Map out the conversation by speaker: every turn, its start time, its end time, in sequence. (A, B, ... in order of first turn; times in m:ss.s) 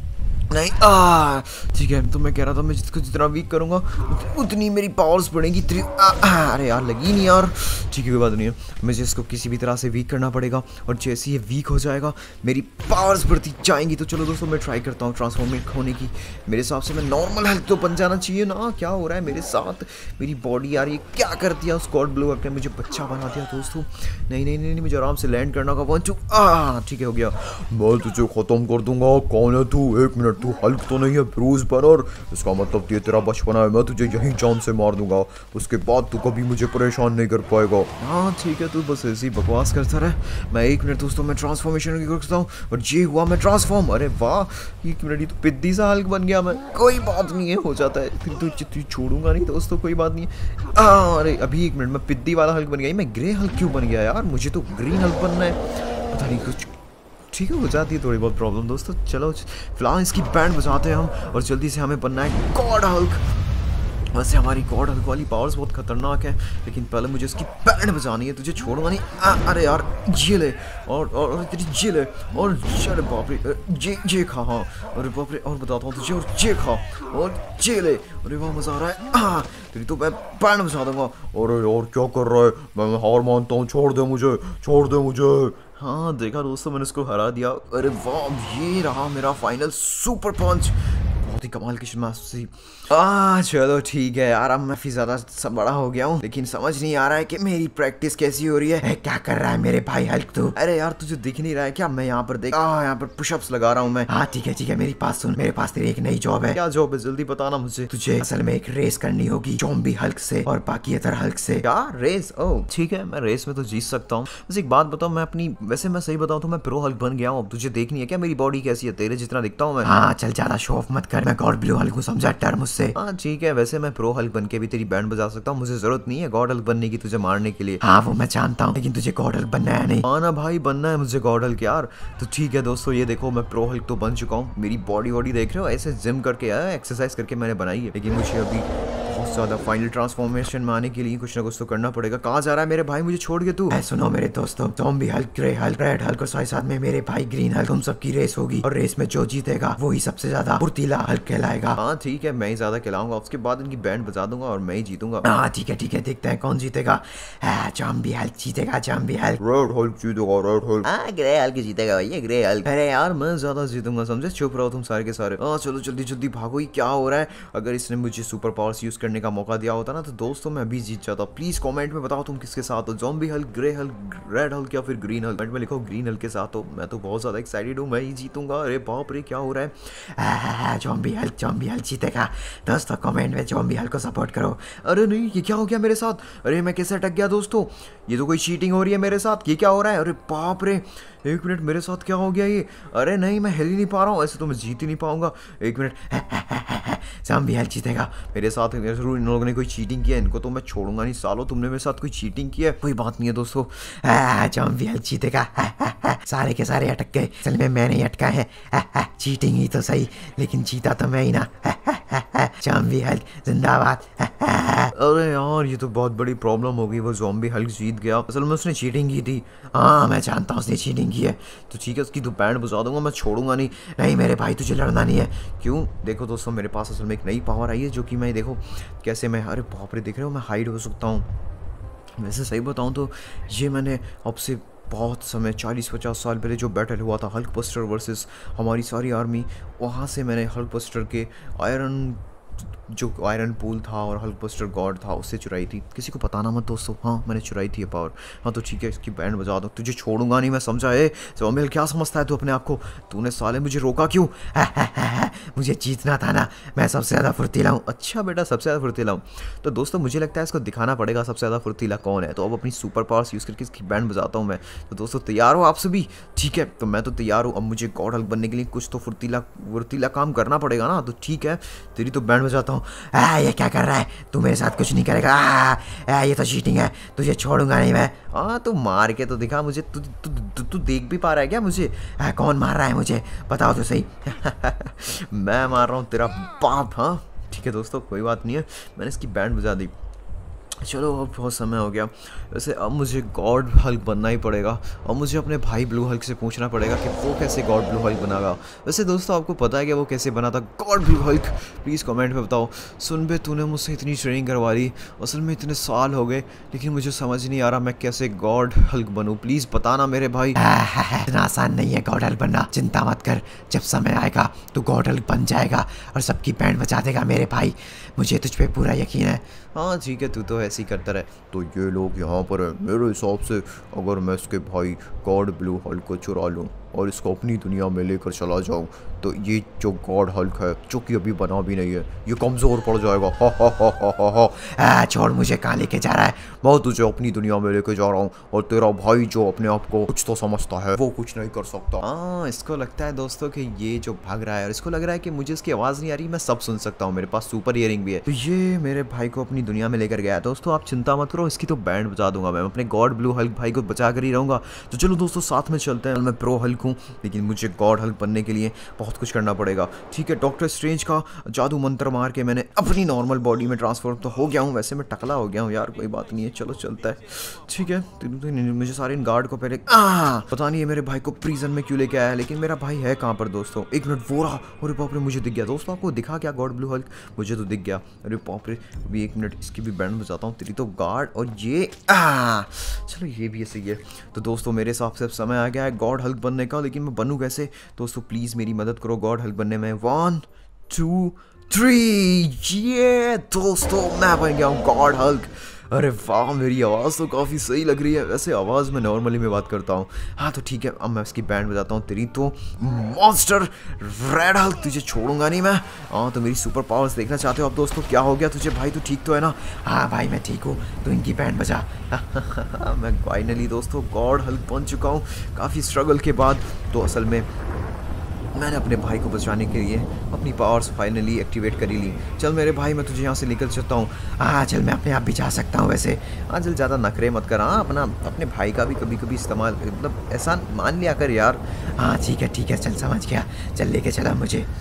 0:00.5-0:56.7 A
0:57.3-1:03.3 A
1:04.1-1:38.8 A
1:38.8-1:40.6 B
1:40.6-1:44.1 A
1:44.1-1:46.6 B
1:46.6-1:48.0 A
1:47.9-1:51.7 B
1:51.6-1:59.9 A
1:59.8-2:03.0 B
2:03.0-2:07.8 A
2:07.8-2:10.1 B
2:10.0-2:23.8 A
2:23.7-2:31.8 B
2:31.8-2:35.3 A
2:35.2-2:39.4 B
2:39.4-3:00.0 A
3:00.1-3:04.8 B
3:04.8-3:16.2 A
3:16.1-3:18.2 B
3:18.2-3:23.7 A
3:23.7-3:34.9 B
3:35.0-3:39.7 A
3:39.7-3:41.5 B
3:41.5-3:44.0 A
3:44.0-3:45.4 B
3:45.4-3:51.3 A
3:52.2-4:02.2 A
4:02.8-4:14.5 A
4:14.5-4:17.8 B
4:17.8-4:32.9 A
4:32.9-4:38.3 B
4:38.2-4:42.1 A
4:42.1-4:44.8 B
4:44.7-4:49.9 A
4:50.8-5:10.6 A
5:10.6-5:19.4 B
5:19.8-5:34.7 A
5:34.7-5:36.4 B
5:36.4-6:49.8 A
6:49.8-6:52.1 B
6:52.1-6:57.5 A
6:58.5-7:04.3 A
7:04.4-7:06.4 B
7:06.4-7:11.8 A
7:11.9-7:14.7 B